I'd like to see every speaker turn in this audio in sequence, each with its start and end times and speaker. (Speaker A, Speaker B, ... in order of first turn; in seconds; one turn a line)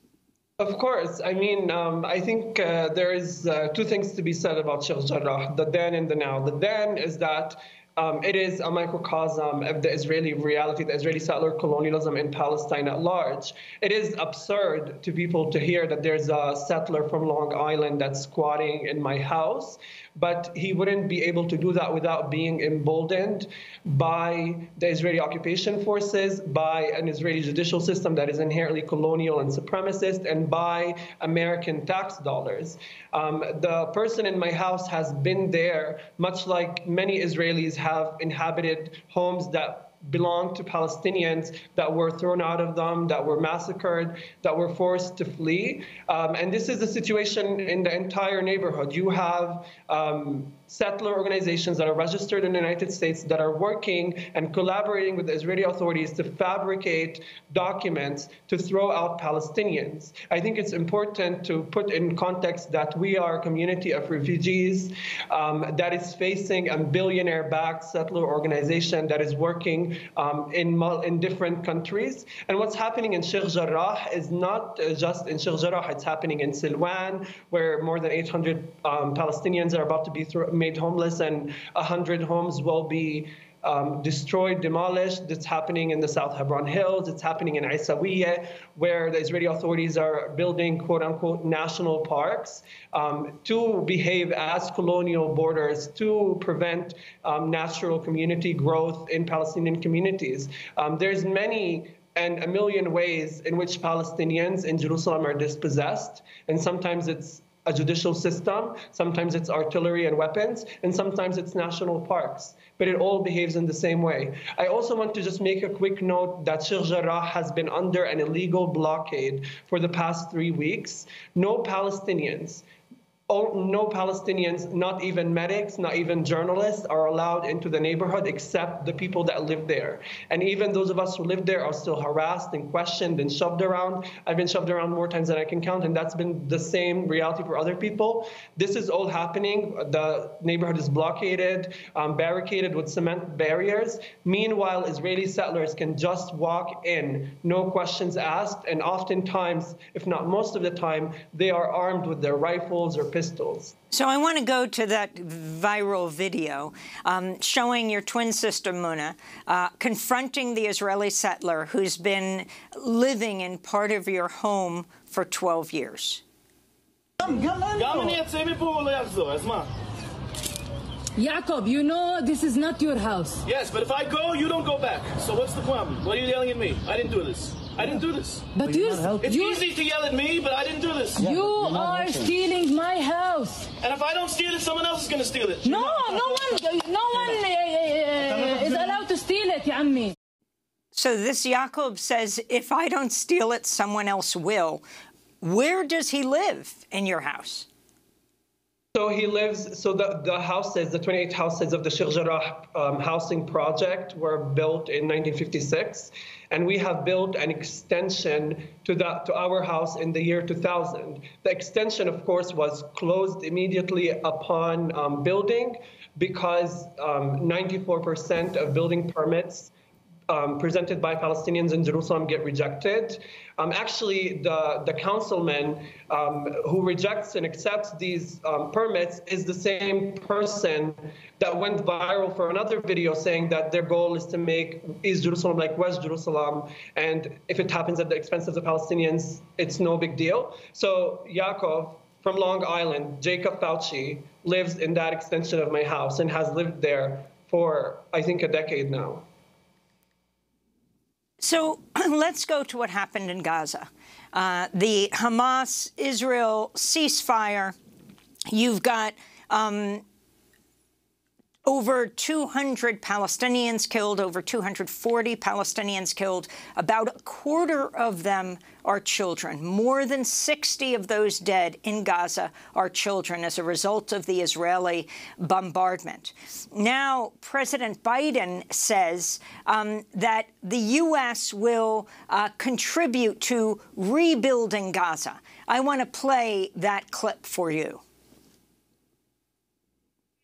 Speaker A: 0.6-122.6
Speaker A: 123.3-153.7
Speaker B: 153.9-166.2
Speaker C: 167.2-169.7
Speaker D: 171.2-173.4
Speaker C: 173.4-181.4
Speaker D: 178.5-179.7
Speaker D: 181.2-183.7
Speaker C: 183.8-186.5
Speaker D: 185.6-190.1
Speaker C: 188.2-189.0
Speaker B: 190.9-194.8
Speaker B: 195.4-197.7
Speaker A: 198.9-219.7
Speaker A: 220.3-249.2
Speaker B: 251.4-257.8
Speaker B: 258.5-260.0
Speaker B: 261.6-288.0